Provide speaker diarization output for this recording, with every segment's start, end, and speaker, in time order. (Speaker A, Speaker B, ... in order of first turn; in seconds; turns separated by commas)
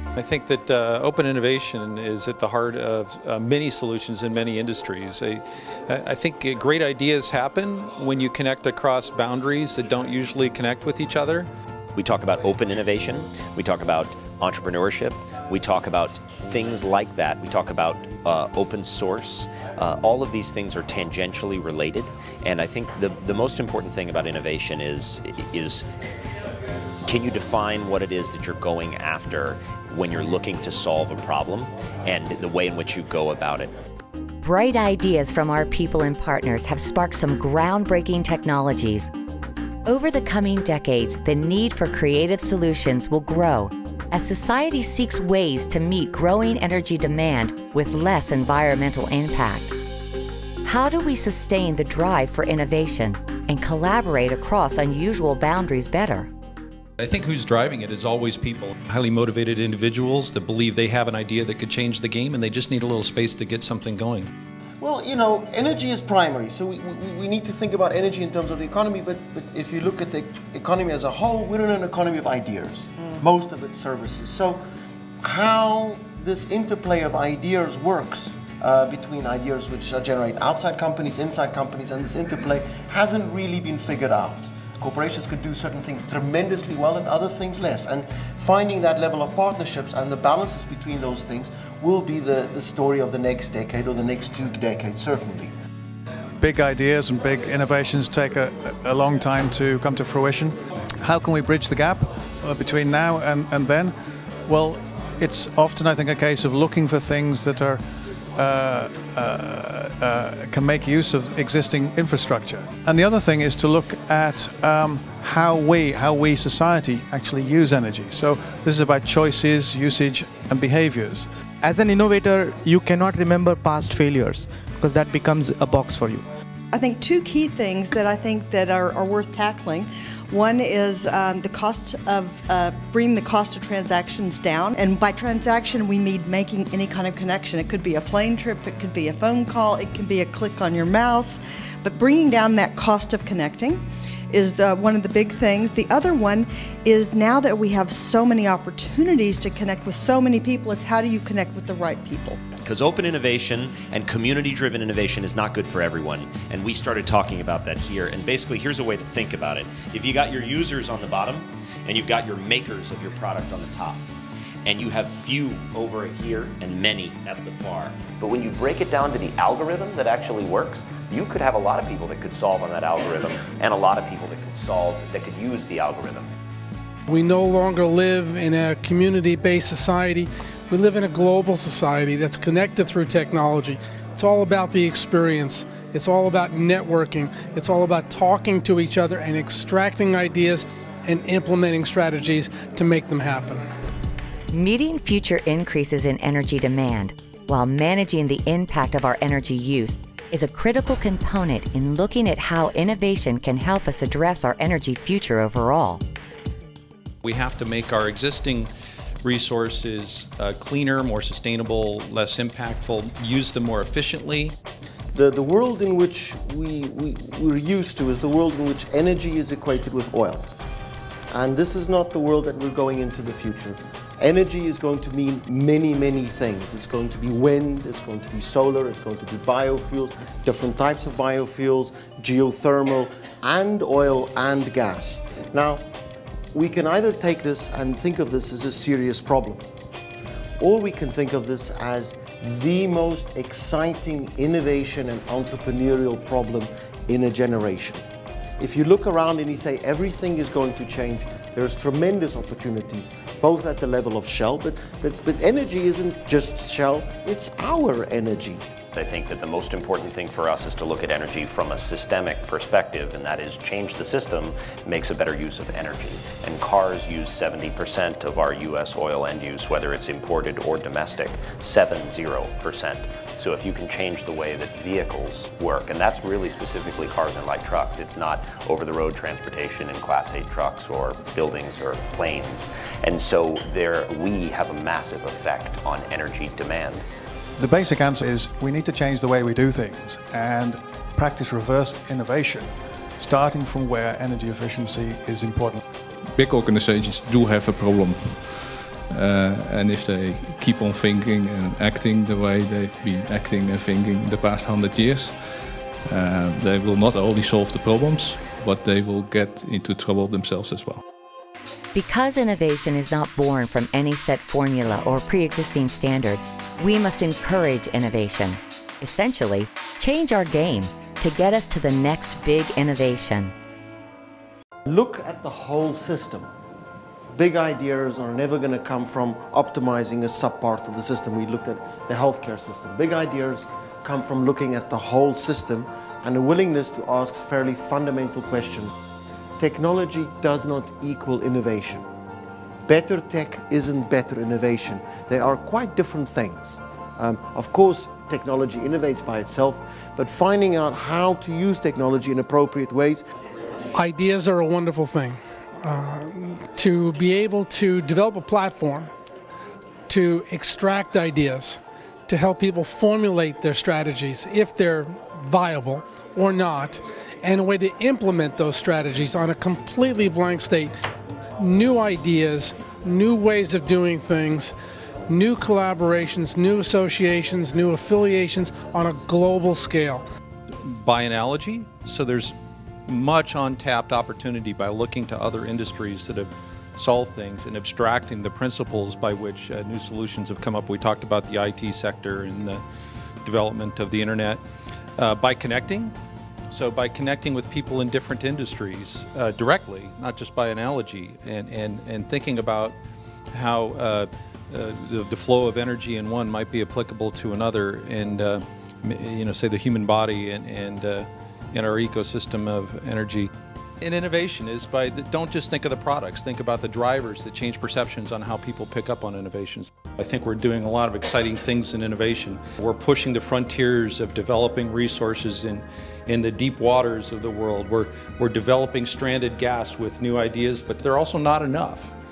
Speaker A: 0.1-11.5, Speaker B: 11.9-25.8, Speaker B: 27.0-33.7, Speaker C: 34.4-39.1, Speaker C: 39.9-49.8, Speaker C: 50.6-56.3, Speaker A: 57.0-64.3, Speaker D: 64.8-74.6, Speaker D: 75.2-95.5, Speaker E: 96.4-100.5, Speaker E: 101.0-103.9, Speaker E: 104.5-107.8, Speaker E: 108.4-121.2, Speaker F: 121.6-126.2, Speaker G: 126.7-152.4, Speaker B: 152.6-164.0, Speaker B: 164.6-176.3, Speaker H: 177.1-193.6, Speaker C: 194.5-206.0, Speaker A: 207.2-208.7, Speaker A: 209.2-214.6, Speaker D: 215.1-220.5, Speaker D: 221.3-235.8, Speaker D: 236.5-239.6, Speaker D: 240.6-248.0, Speaker D: 248.6-258.6, Speaker B: 258.9-287.0, Speaker E: 287.6-292.6, Speaker E: 293.2-295.8, Speaker I: 296.4-298.6, Speaker I: 299.1-305.3, Speaker I: 306.1-311.0, Speaker C: 311.9-323.5, Speaker D: 324.9-326.5, Speaker D: 327.4-338.9, Speaker D: 339.6-342.0, Speaker D: 342.9-353.2, Speaker H: 353.9-359.1, Speaker H: 360.1-370.9, Speaker H: 371.6-374.7, Speaker H: 375.3-380.2, Speaker A: 380.8-382.5, Speaker A: 383.1-392.8, Speaker A: 393.4-394.6, Speaker A: 395.2-396.1, Speaker A: 396.7-402.9, Speaker A: 403.5-413.5, Speaker A: 414.0-432.1